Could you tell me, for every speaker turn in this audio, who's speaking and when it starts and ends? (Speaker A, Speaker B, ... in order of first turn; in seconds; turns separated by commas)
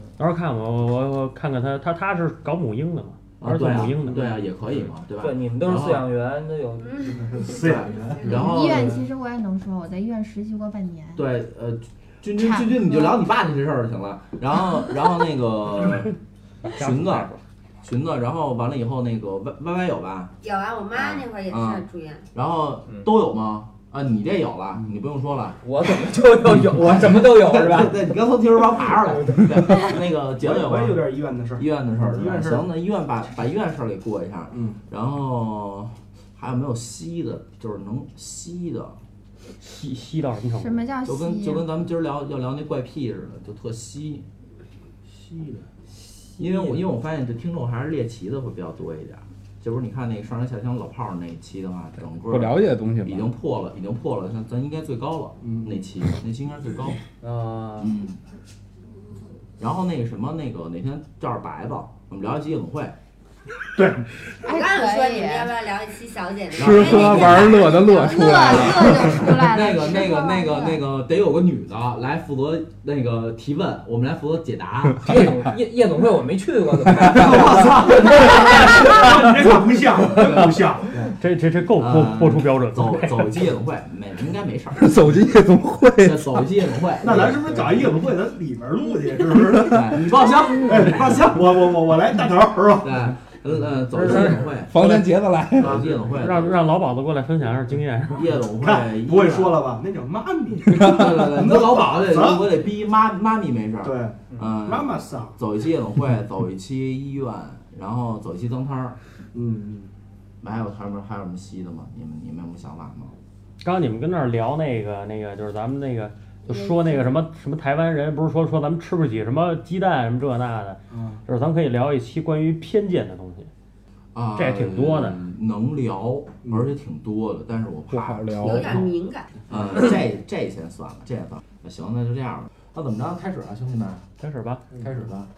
Speaker A: 0.2-4.4, Speaker B: 3.4-6.1, Speaker C: 5.2-7.4, Speaker D: 6.8-7.6, Speaker E: 7.3-8.3, Speaker B: 7.6-9.0, Speaker C: 8.2-8.8, Speaker F: 8.2-11.3, Speaker B: 11.2-16.2, Speaker F: 12.3-13.2, Speaker A: 16.7-17.4, Speaker B: 16.7-17.3, Speaker B: 17.8-20.3, Speaker D: 20.4-22.3, Speaker B: 20.9-25.6, Speaker C: 25.6-28.0, Speaker B: 26.8-39.0, Speaker C: 28.8-30.0, Speaker E: 30.4-32.6, Speaker E: 34.5-34.8, Speaker A: 39.6-40.9, Speaker F: 40.5-41.7, Speaker B: 41.0-44.3, Speaker E: 45.1-45.7, Speaker C: 46.4-46.8, Speaker B: 46.4-57.1, Speaker G: 52.2-53.3, Speaker E: 55.4-55.8, Speaker C: 57.2-58.0, Speaker B: 57.8-58.2, Speaker B: 59.6-63.0, Speaker E: 63.8-64.0, Speaker F: 64.4-65.5, Speaker D: 64.4-68.9, Speaker B: 66.5-66.9, Speaker G: 66.5-69.2, Speaker F: 67.9-70.8, Speaker B: 68.9-75.2, Speaker C: 75.0-78.8, Speaker E: 77.0-81.1, Speaker B: 80.2-80.5, Speaker A: 81.1-83.3, Speaker B: 81.8-85.1, Speaker G: 84.8-86.4, Speaker B: 86.0-87.5, Speaker E: 87.0-89.8, Speaker B: 89.7-91.2, Speaker E: 90.6-92.9, Speaker B: 92.8-96.6, Speaker G: 94.7-95.8, Speaker E: 95.6-96.0, Speaker A: 96.1-98.3, Speaker B: 98.2-99.6, Speaker E: 98.6-102.5, Speaker B: 100.7-109.0, Speaker E: 103.8-105.4, Speaker C: 104.3-104.6, Speaker E: 109.3-109.9, Speaker B: 110.4-113.1, Speaker A: 113.6-123.5, Speaker D: 116.5-117.1, Speaker E: 120.9-121.2, Speaker B: 124.2-128.9, Speaker A: 124.3-125.2, Speaker G: 127.9-128.9, Speaker D: 128.4-129.4, Speaker B: 129.5-134.1, Speaker A: 134.2-134.6, Speaker B: 134.7-135.3